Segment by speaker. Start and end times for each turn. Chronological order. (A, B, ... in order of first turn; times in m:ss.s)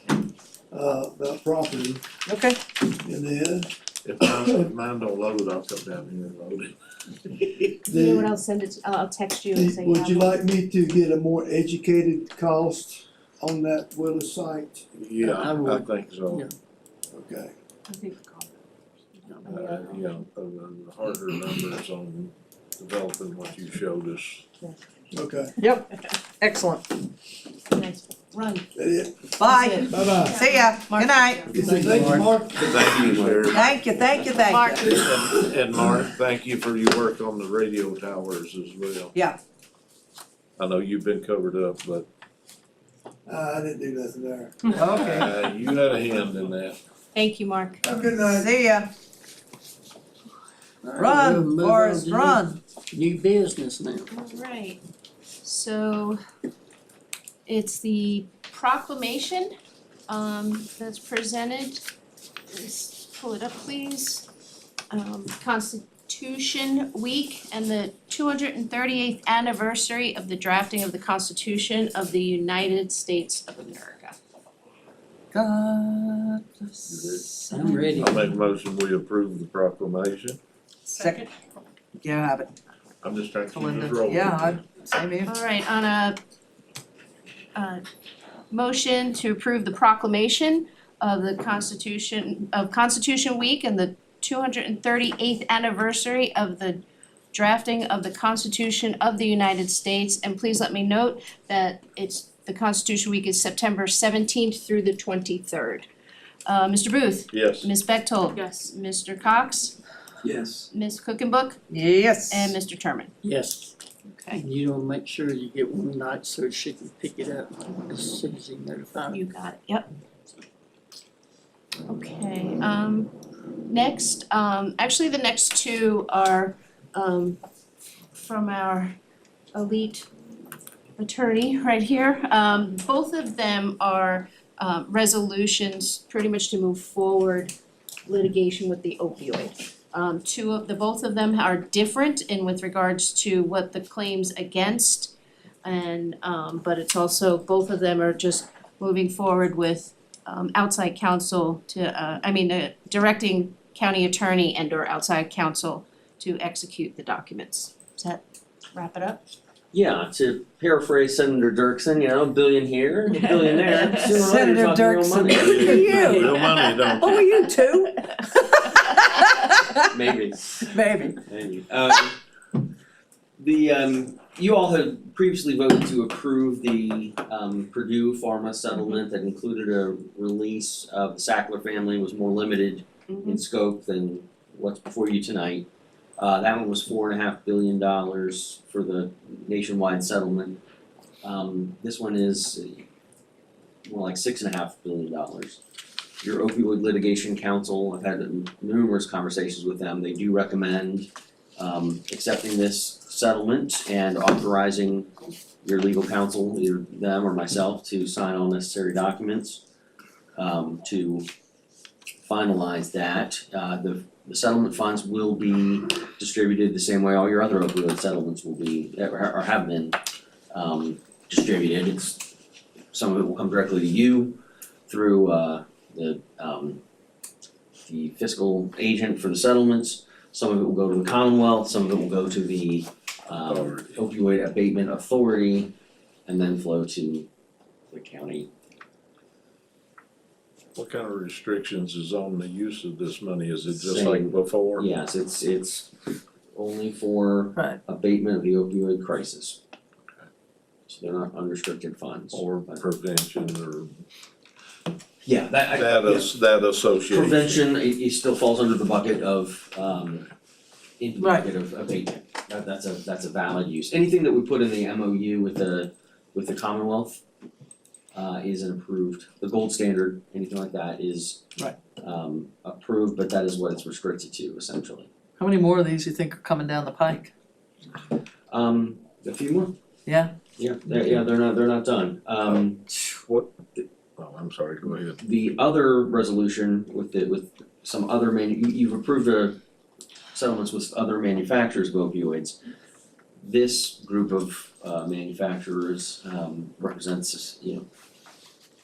0:00.7-0:02.0 A
0:02.3-0:02.6 B
0:02.8-0:03.7 A
0:04.0-0:06.8 C
0:04.2-0:04.7 A
0:07.8-0:08.3 A
0:07.9-0:10.5 D
0:09.5-0:14.8 A
0:14.9-0:16.5 C
0:15.2-0:16.5 E
0:17.1-0:17.5 A
0:17.9-0:18.5 D
0:19.3-0:19.6 E
0:19.5-0:24.4 C
0:19.5-0:19.8 D
0:25.1-0:25.5 A
0:25.6-0:25.9 B
0:26.4-0:26.8 B
0:27.7-0:28.7 D
0:28.8-0:29.3 A
0:29.4-0:32.3 B
0:29.5-0:32.2 D
0:29.9-0:30.4 A
0:31.5-0:32.7 A
0:32.5-0:33.5 F
0:32.6-0:33.7 C
0:33.5-0:35.0 B
0:34.4-0:35.1 D
0:34.8-0:39.1 C
0:40.6-0:42.1 C
0:43.3-0:44.7 A
0:44.7-0:45.3 B
0:44.9-0:46.8 C
0:47.1-0:47.8 D
0:47.8-0:48.5 A
0:48.4-0:48.9 B
0:50.8-0:54.1 E
0:51.0-0:52.6 B
0:54.1-0:54.8 D
0:55.4-0:56.2 D
0:57.5-0:59.5 D
1:00.1-1:01.9 D
1:02.5-1:04.3 D
1:04.9-1:14.2 D
1:15.3-1:17.2 B
1:16.9-1:17.3 C
1:17.4-1:18.1 D
1:17.5-1:18.3 E
1:18.0-1:20.4 C
1:20.9-1:21.3 B
1:22.0-1:22.5 B
1:23.0-1:24.6 C
1:23.5-1:25.3 B
1:25.2-1:26.2 D
1:27.6-1:27.8 D
1:28.5-1:45.9 D
1:46.5-1:49.8 D
1:47.3-1:47.7 C
1:50.2-1:50.7 A
1:50.7-1:51.6 D
1:51.7-1:52.6 B
1:52.3-1:53.1 D
1:53.2-1:53.8 E
1:54.0-1:54.4 D
1:54.3-1:59.2 E
1:59.1-1:59.9 D
2:01.9-2:03.1 D
2:03.7-2:07.4 D
2:08.1-2:09.0 D
2:09.5-2:10.1 D
2:11.0-2:17.6 D
2:18.1-2:25.1 D
2:25.6-2:39.3 D
2:39.7-2:46.3 F
2:44.2-2:46.3 B
2:45.4-2:47.3 C
2:47.0-2:49.9 B
2:49.9-2:50.7 F
2:50.6-2:51.2 B
2:51.2-2:52.2 F
2:53.4-3:05.7 F
3:03.1-3:03.4 D
3:06.2-3:10.6 F
3:11.2-3:12.8 F
3:13.8-3:15.6 F
3:16.2-3:25.1 F
3:25.6-3:29.6 F
3:30.4-3:31.3 F
3:32.2-3:40.0 F
3:40.5-3:42.3 F
3:42.9-3:46.8 F
3:47.8-3:55.7 F
3:53.4-3:54.0 C
3:56.3-3:57.3 F
3:57.9-3:58.5 F
4:00.8-4:04.9 C
4:03.7-4:05.9 F
4:06.5-4:09.6 F
4:10.9-4:12.8 F
4:12.3-4:13.9 C
4:15.2-4:16.3 F
4:15.7-4:17.6 C
4:17.1-4:20.3 F
4:21.0-4:27.2 F
4:21.2-4:21.4 B
4:28.1-4:31.4 F
4:32.0-4:35.1 F
4:35.4-4:37.3 B
4:38.5-4:39.8 F
4:40.1-4:40.3 B
4:40.6-4:42.8 F
4:40.9-4:41.3 C
4:42.4-4:43.5 C
4:44.2-4:45.2 C
4:45.2-4:49.6 F
4:50.3-4:52.6 F
4:53.4-4:57.9 F